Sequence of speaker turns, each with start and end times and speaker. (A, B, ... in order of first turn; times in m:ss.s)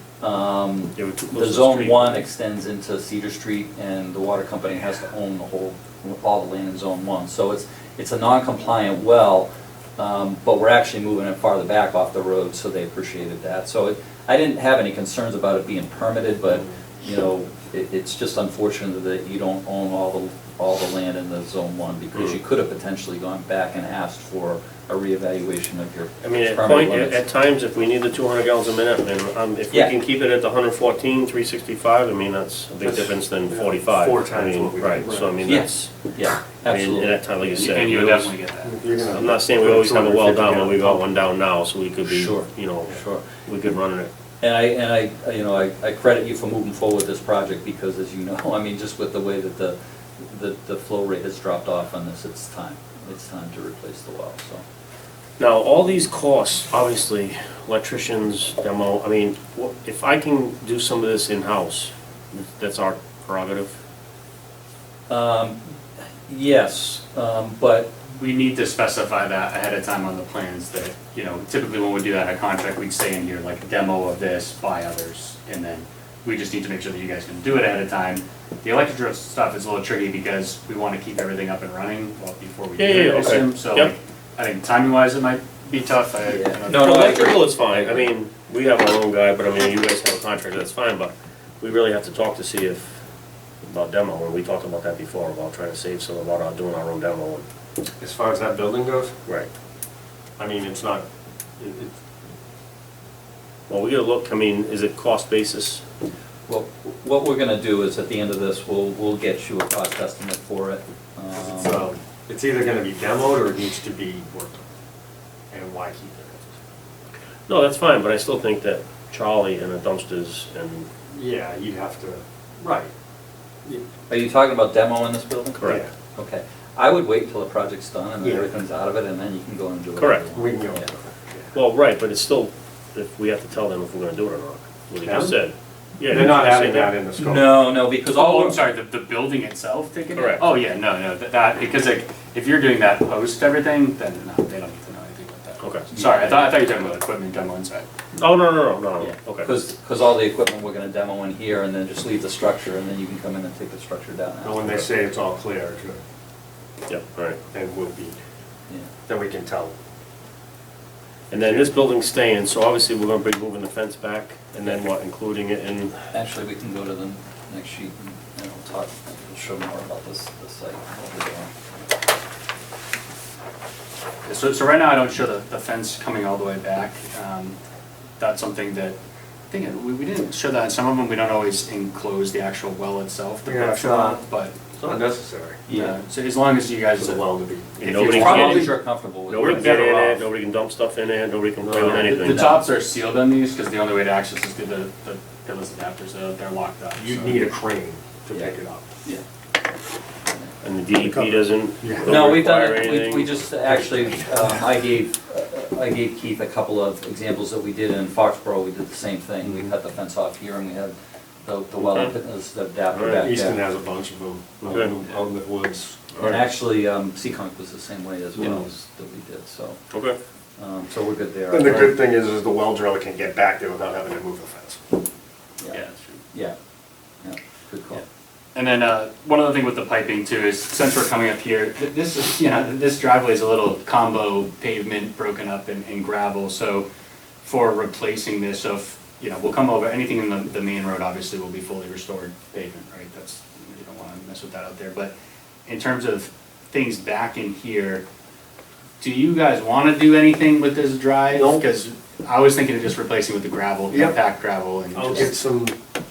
0:00.2-0:27.2 A
0:00.9-0:02.2 B
0:26.2-0:35.9 B
0:32.8-0:35.6 C
0:35.4-0:37.2 A
0:36.6-0:38.3 B
0:37.4-0:39.2 D
0:38.6-0:41.0 C
0:39.1-0:44.1 B
0:42.1-0:42.5 A
0:44.4-0:54.6 A
0:55.4-1:03.8 B
1:05.1-1:05.7 A
1:06.3-1:07.9 A
1:08.1-1:27.4 D
1:22.8-1:23.9 B
1:26.2-1:28.1 A
1:26.7-1:33.0 B
1:33.6-1:37.4 B
1:38.0-1:39.1 C
1:40.4-1:41.0 C
1:41.6-1:41.9 C
1:43.7-1:45.8 B
1:46.5-1:51.9 A
1:51.3-1:54.6 C
1:55.5-1:56.6 C
1:57.5-2:00.9 B
2:01.1-2:02.9 C
2:04.1-2:10.9 A
2:05.6-2:05.8 B
2:08.2-2:08.5 C
2:10.0-2:10.2 B
2:10.3-2:11.6 C
2:11.5-2:17.0 B
2:15.0-2:15.4 C
2:16.0-2:17.5 C
2:17.2-2:18.6 A
2:18.1-2:27.9 D
2:20.1-2:20.5 B
2:25.6-2:25.9 B
2:25.9-2:26.5 A
2:28.1-2:29.5 B
2:29.0-2:34.8 A
2:34.4-2:36.0 C
2:36.9-2:37.4 B
2:37.5-2:38.2 C
2:39.1-2:39.7 C
2:41.3-2:46.0 B
2:41.3-2:41.8 C
2:46.1-2:51.5 A
2:54.2-2:57.6 D
2:58.2-2:59.0 D
2:59.5-3:04.5 D
3:03.4-3:04.2 C
3:04.8-3:05.9 C
3:05.7-3:07.2 D
3:07.0-3:08.4 C
3:07.8-3:12.5 B
3:07.8-3:08.8 D
3:08.0-3:10.0 A
3:09.6-3:10.0 C
3:11.6-3:12.4 C
3:11.8-3:17.5 D
3:12.2-3:12.6 A
3:17.0-3:18.8 C
3:20.6-3:23.4 B
3:20.9-3:22.2 C
3:22.0-3:30.9 A
3:23.7-3:24.7 C
3:29.4-3:29.7 C
3:31.4-3:33.6 A
3:31.8-3:32.1 B
3:32.9-3:33.2 B
3:33.2-3:36.1 C
3:34.6-3:34.9 B
3:36.2-3:36.5 B
3:36.2-3:39.8 A
3:38.4-3:38.7 C
3:39.9-3:40.2 B
3:40.6-3:42.0 A
3:41.5-3:45.0 C
3:45.7-3:46.2 D
3:47.2-3:48.0 A
3:48.5-3:56.9 D
3:57.4-4:05.1 D
4:05.6-4:08.0 D
4:09.0-4:15.3 D
4:11.3-4:11.7 C
4:13.9-4:14.2 C
4:14.9-4:15.8 C